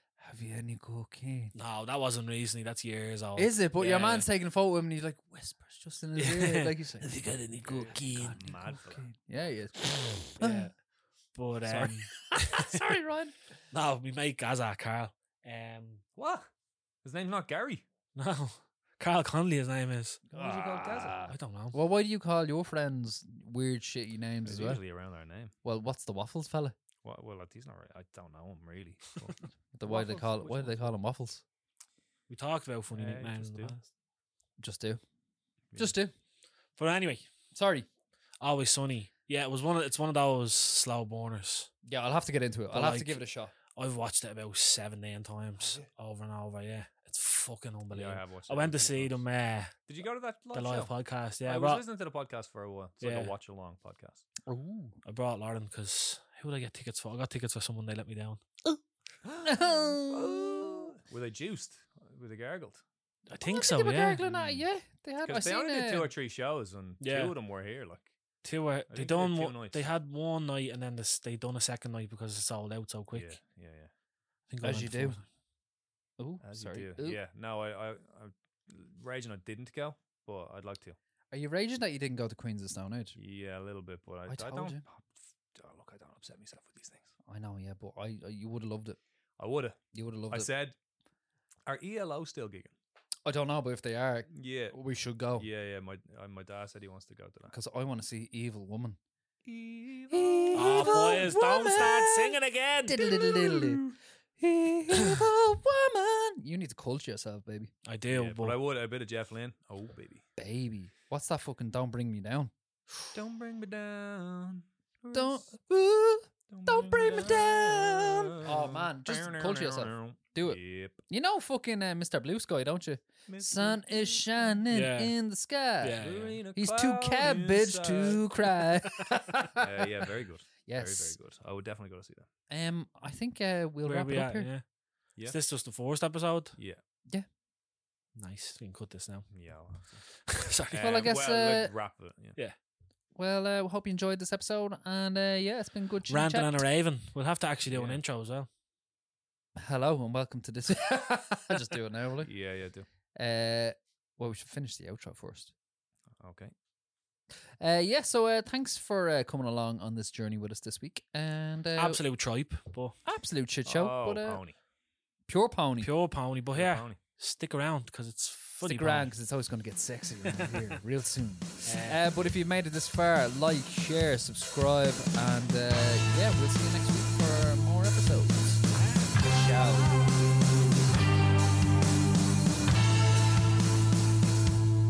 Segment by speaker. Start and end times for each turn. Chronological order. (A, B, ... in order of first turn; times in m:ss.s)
0:00.2-0:01.5 A
0:01.6-0:04.3 B
0:03.4-0:10.7 A
0:06.2-0:08.4 B
0:07.7-0:09.1 C
0:10.4-0:10.7 B
0:11.3-0:13.0 B
0:11.6-0:13.3 A
0:13.7-0:16.0 B
0:16.2-0:16.5 C
0:17.0-0:17.8 C
0:18.2-0:20.2 B
0:20.3-0:24.8 A
0:20.3-0:21.2 C
0:21.3-0:21.8 B
0:24.4-0:25.5 C
0:25.6-0:26.8 A
0:27.0-0:31.0 C
0:29.7-0:31.4 A
0:32.3-0:33.8 B
0:32.9-0:33.8 C
0:34.6-0:35.0 A
0:35.8-0:36.1 A
0:36.8-0:37.3 B
0:37.5-0:37.9 A
0:38.4-0:41.7 B
0:41.8-0:43.5 A
0:42.7-0:49.8 B
0:45.6-0:45.9 C
0:47.9-0:49.2 C
0:49.9-0:50.9 C
0:50.5-0:51.8 B
0:51.4-0:54.2 C
0:53.0-0:53.3 B
0:54.5-0:55.0 A
0:55.0-0:58.4 B
0:59.2-1:02.8 C
0:59.4-1:00.9 A
1:03.3-1:04.2 B
1:03.4-1:06.1 A
1:04.2-1:04.6 C
1:05.2-1:08.1 C
1:07.0-1:07.4 B
1:08.4-1:13.4 B
1:08.9-1:09.9 C
1:13.1-1:13.9 C
1:14.5-1:15.2 B
1:14.6-1:15.2 A
1:16.2-1:17.2 A
1:16.4-1:21.0 C
1:21.3-1:23.2 A
1:23.2-1:27.1 C
1:24.3-1:24.8 A
1:27.3-1:29.0 A
1:29.4-1:30.8 C
1:29.9-1:30.5 A
1:31.7-1:32.8 C
1:33.3-1:35.5 A
1:34.3-1:34.8 C
1:35.4-1:37.5 C
1:37.5-1:39.0 A
1:39.4-1:41.3 C
1:40.1-1:43.8 A
1:40.5-1:43.2 B
1:43.4-1:43.9 C
1:44.4-1:47.7 A
1:47.8-1:48.6 B
1:48.1-1:50.2 C
1:50.4-1:52.5 A
1:53.2-1:55.5 C
1:55.1-2:09.9 A
1:56.5-2:01.0 C
2:03.3-2:04.6 C
2:04.7-2:05.1 B
2:05.8-2:06.4 B
2:06.0-2:08.2 C
2:09.6-2:12.3 C
2:10.7-2:11.2 A
2:12.5-2:14.5 A
2:13.8-2:14.6 B
2:15.2-2:16.6 B
2:18.2-2:19.3 B
2:19.3-2:20.1 C
2:20.3-2:21.1 B
2:20.7-2:22.4 C
2:20.7-2:21.7 A
2:23.2-2:26.6 A
2:26.1-2:28.5 B
2:27.7-2:28.0 C
2:29.6-2:32.3 A
2:32.2-2:32.9 C
2:33.2-2:35.5 A
2:36.2-2:36.5 C
2:37.6-2:42.0 A
2:41.8-2:43.0 B
2:43.0-2:44.4 A
2:43.7-2:44.6 C
2:45.3-2:45.9 A
2:45.8-2:49.1 B
2:46.5-2:47.0 C
2:48.6-3:00.2 A
2:51.6-2:52.0 B